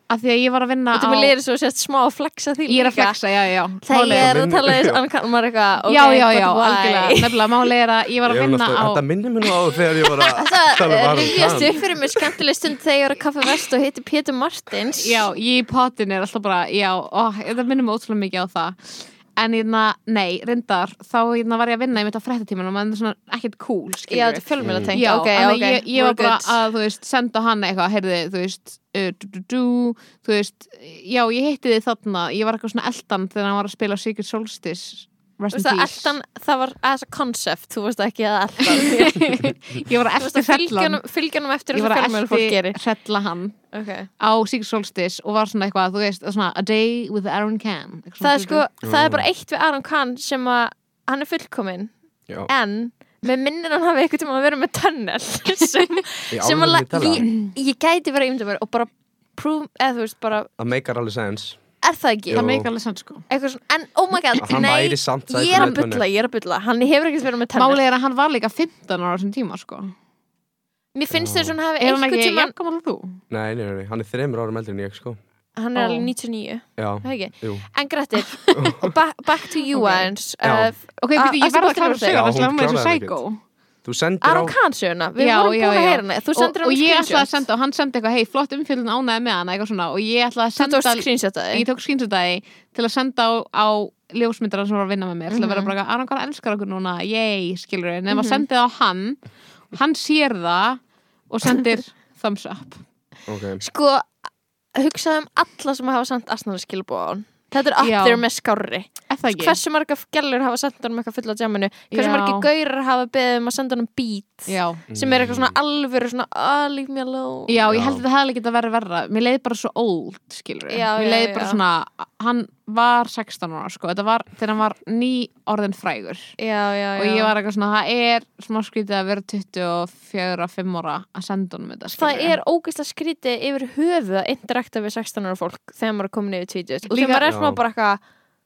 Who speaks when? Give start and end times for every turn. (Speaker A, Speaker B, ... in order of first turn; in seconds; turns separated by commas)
Speaker A: 0.1-1.3, Speaker B: 0.9-3.2, Speaker A: 2.7-4.3, Speaker B: 3.9-7.5, Speaker C: 4.1-5.0, Speaker A: 5.9-9.0, Speaker C: 8.2-12.3, Speaker B: 10.3-15.3, Speaker A: 15.0-36.1, Speaker B: 24.1-26.6, Speaker C: 24.6-24.9, Speaker B: 35.5-39.5, Speaker A: 38.7-41.0, Speaker B: 40.2-42.8, Speaker A: 41.7-43.6, Speaker B: 43.7-44.1, Speaker A: 44.2-48.6, Speaker B: 48.2-51.9, Speaker C: 48.8-49.2, Speaker B: 52.5-60.5, Speaker C: 56.3-57.3, Speaker C: 60.6-61.6, Speaker B: 61.8-62.5, Speaker C: 62.3-62.7, Speaker A: 62.3-63.2, Speaker B: 63.3-67.8, Speaker C: 64.4-66.0, Speaker A: 65.5-65.8, Speaker A: 67.6-69.9, Speaker B: 71.0-72.5, Speaker C: 71.1-71.5, Speaker A: 71.8-73.2, Speaker C: 73.3-75.2, Speaker B: 75.6-82.2, Speaker A: 75.8-76.1, Speaker C: 76.8-77.7, Speaker A: 78.4-78.7, Speaker C: 78.5-78.9, Speaker A: 79.6-80.1, Speaker C: 80.4-80.7, Speaker A: 81.0-83.4, Speaker C: 82.1-83.2, Speaker C: 83.8-84.5, Speaker B: 84.2-87.4, Speaker A: 85.2-99.2, Speaker B: 90.6-91.7, Speaker B: 95.3-95.7, Speaker B: 98.1-98.4, Speaker A: 99.7-102.8, Speaker C: 103.3-103.6, Speaker B: 103.6-104.1, Speaker B: 104.8-117.7, Speaker A: 107.8-108.2, Speaker A: 109.1-109.6, Speaker A: 111.9-112.5, Speaker A: 114.5-114.8, Speaker C: 114.9-115.6, Speaker A: 117.5-126.3, Speaker C: 117.7-118.0, Speaker B: 120.7-121.6, Speaker B: 126.4-127.3, Speaker A: 127.0-132.4, Speaker B: 131.9-138.0, Speaker A: 136.9-137.3, Speaker C: 137.3-137.6